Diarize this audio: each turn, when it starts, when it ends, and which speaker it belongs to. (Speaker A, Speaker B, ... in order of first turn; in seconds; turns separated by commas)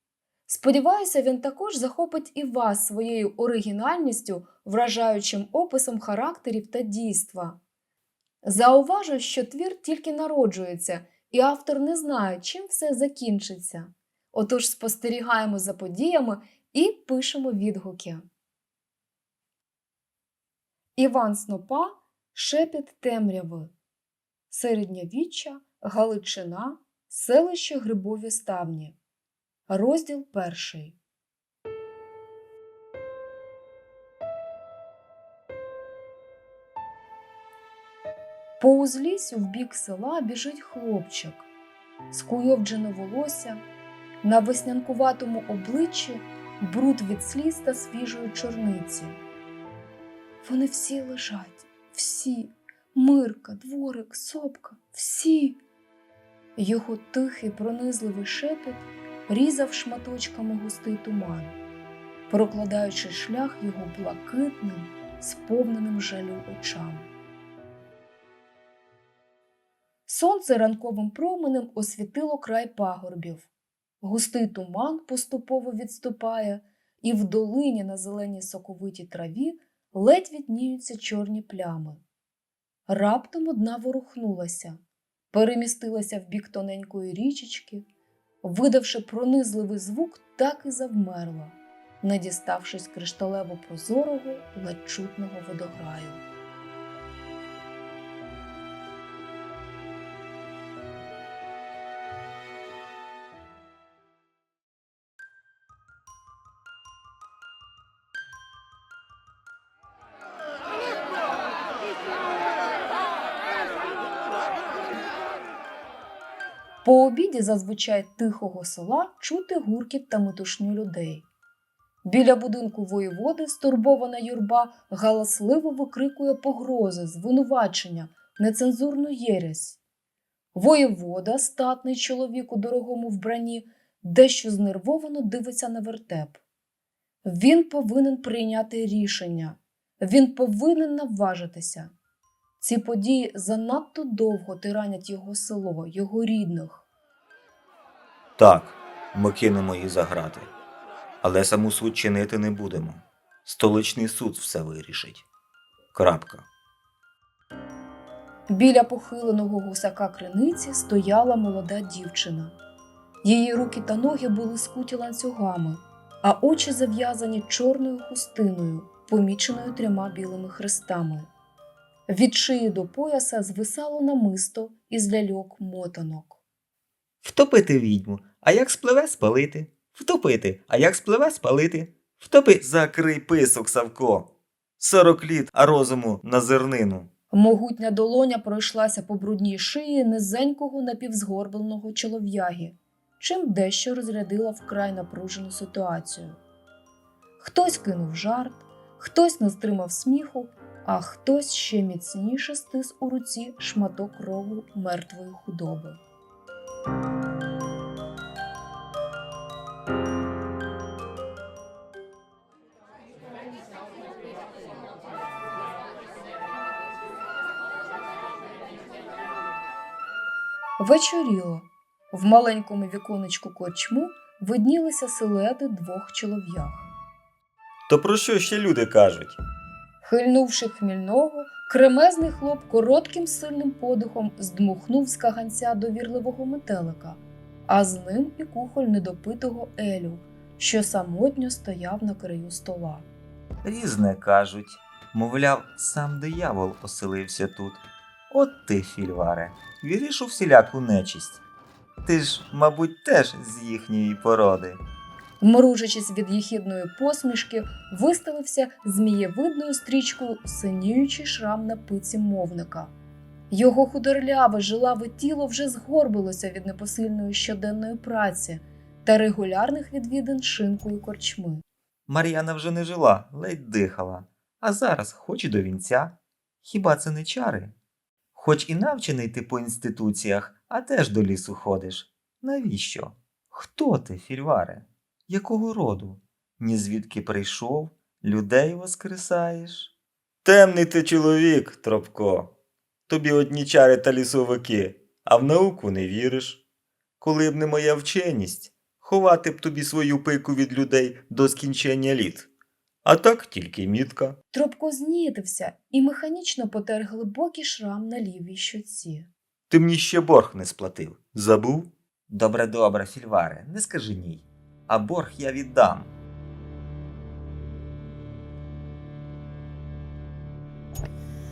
Speaker A: 0.5-7.6, Speaker A: 8.4-18.2, Speaker A: 21.0-23.7, Speaker A: 24.5-29.0, Speaker A: 29.7-31.0, Speaker A: 38.6-41.5, Speaker A: 42.1-43.6, Speaker A: 44.2-49.2, Speaker A: 50.4-55.6, Speaker A: 56.6-61.6, Speaker A: 62.3-67.1, Speaker A: 70.1-73.5, Speaker A: 74.0-82.0, Speaker A: 82.9-84.8, Speaker A: 85.3-87.9, Speaker A: 88.4-96.2, Speaker A: 116.8-121.3, Speaker A: 122.0-129.8, Speaker A: 130.5-136.4, Speaker A: 137.2-141.9, Speaker A: 142.6-146.9, Speaker B: 148.4-150.5, Speaker B: 151.2-155.3, Speaker B: 155.9-156.5, Speaker A: 158.5-162.6, Speaker A: 163.2-171.3, Speaker A: 172.1-176.4, Speaker B: 177.2-187.1, Speaker A: 187.3-196.4, Speaker A: 197.4-206.0, Speaker A: 220.8-226.9, Speaker B: 227.9-229.4, Speaker A: 230.0-243.1, Speaker B: 243.6-251.4, Speaker B: 252.0-254.8, Speaker A: 255.4-262.9, Speaker A: 263.5-271.6, Speaker B: 272.1-277.8, Speaker B: 278.3-289.9, Speaker B: 290.4-292.5, Speaker B: 293.1-296.6, Speaker B: 297.2-302.5, Speaker B: 303.1-304.4, Speaker A: 304.5-309.3, Speaker B: 309.7-316.1